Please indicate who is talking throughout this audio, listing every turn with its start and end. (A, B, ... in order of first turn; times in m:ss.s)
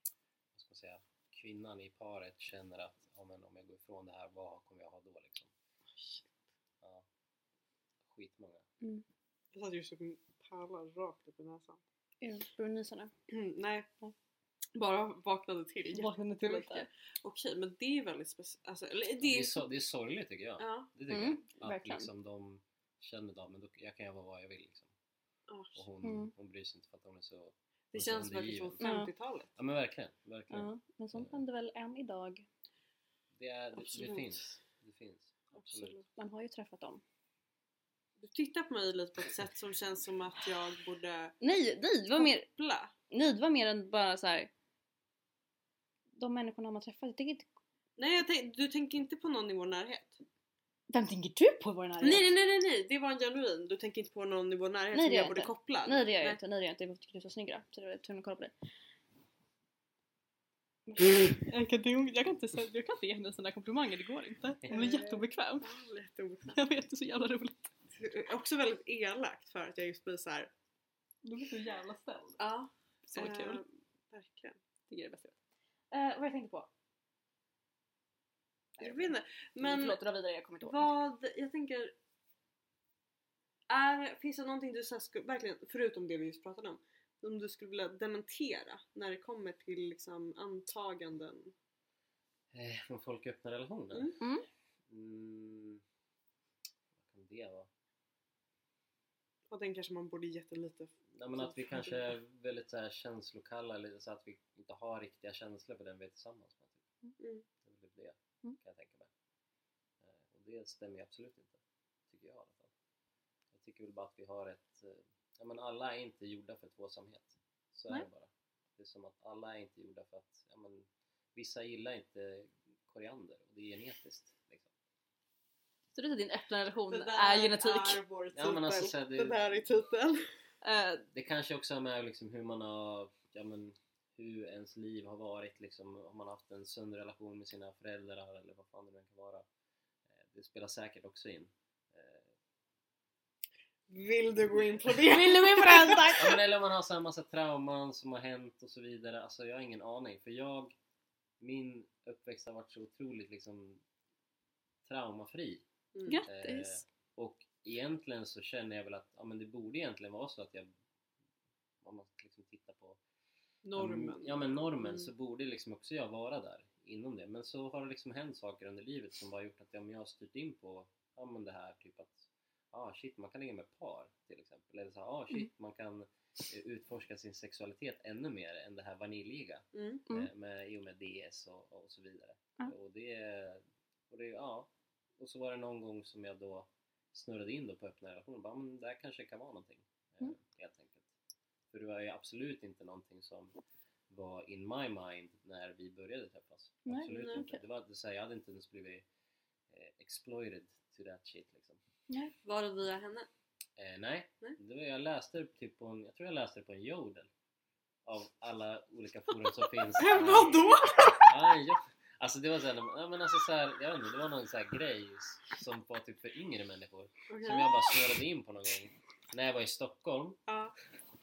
0:00.5-0:05.5 A
0:05.9-0:06.3 B
0:08.0-0:08.6 A
0:09.5-0:11.8 B
0:12.2-0:13.1 C
0:13.3-0:13.9 B
0:14.7-0:19.6 B
0:15.9-0:16.9 C
0:19.2-0:24.9 A
0:20.6-0:20.9 B
0:21.1-0:22.1 C
0:25.5-0:25.8 B
0:25.8-0:28.8 A
0:26.0-0:26.3 C
0:27.9-0:29.5 B
0:28.8-0:29.1 C
0:29.6-0:31.4 A
0:30.5-0:32.4 C
0:33.3-0:36.0 A
0:33.8-0:34.3 B
0:35.5-0:36.1 B
0:36.2-0:37.0 C
0:38.2-0:41.4 B
0:41.4-0:42.4 C
0:42.2-0:42.9 B
0:43.1-0:44.5 C
0:46.2-0:47.5 C
0:48.0-0:50.2 B
0:50.9-0:52.2 C
0:52.0-0:56.4 B
0:54.9-0:58.5 C
1:00.9-1:05.7 C
1:04.7-1:06.6 B
1:06.5-1:07.7 C
1:08.0-1:10.5 B
1:11.2-1:12.4 C
1:12.4-1:14.6 B
1:13.1-1:13.6 C
1:14.9-1:15.4 C
1:15.9-1:16.7 C
1:18.8-1:20.9 C
1:18.8-1:20.0 B
1:20.6-1:21.9 B
1:23.7-1:31.5 B
1:32.5-1:34.1 A
1:34.2-1:34.4 C
1:34.9-1:35.8 A
1:37.0-1:37.7 A
1:39.5-1:42.0 B
1:41.1-1:46.8 A
1:47.2-1:47.4 B
1:47.6-1:49.1 A
1:50.0-1:52.7 A
1:53.5-2:04.7 A
2:05.9-2:08.0 C
2:06.9-2:10.3 B
2:08.3-2:09.4 A
2:10.6-2:11.0 C
2:11.1-2:19.4 A
2:20.1-2:22.3 A
2:23.9-2:26.2 B
2:25.0-2:26.4 C
2:26.1-2:30.7 A
2:31.4-2:33.8 A
2:34.8-2:35.6 A
2:35.9-2:36.2 B
2:36.1-2:36.8 C
2:36.2-2:40.7 A
2:41.8-2:43.0 A
2:43.6-2:45.1 B
2:43.8-3:11.1 A
2:59.7-3:00.0 B
3:11.7-3:13.5 A
3:14.1-3:19.0 A
3:16.8-3:17.6 C
3:17.1-3:17.4 B
3:19.7-3:21.8 A
3:22.4-3:23.3 B
3:23.8-3:27.3 A
3:28.0-3:30.7 A
3:29.9-3:31.5 B
3:31.2-3:40.4 A
3:37.3-3:38.0 B
3:40.5-3:40.7 B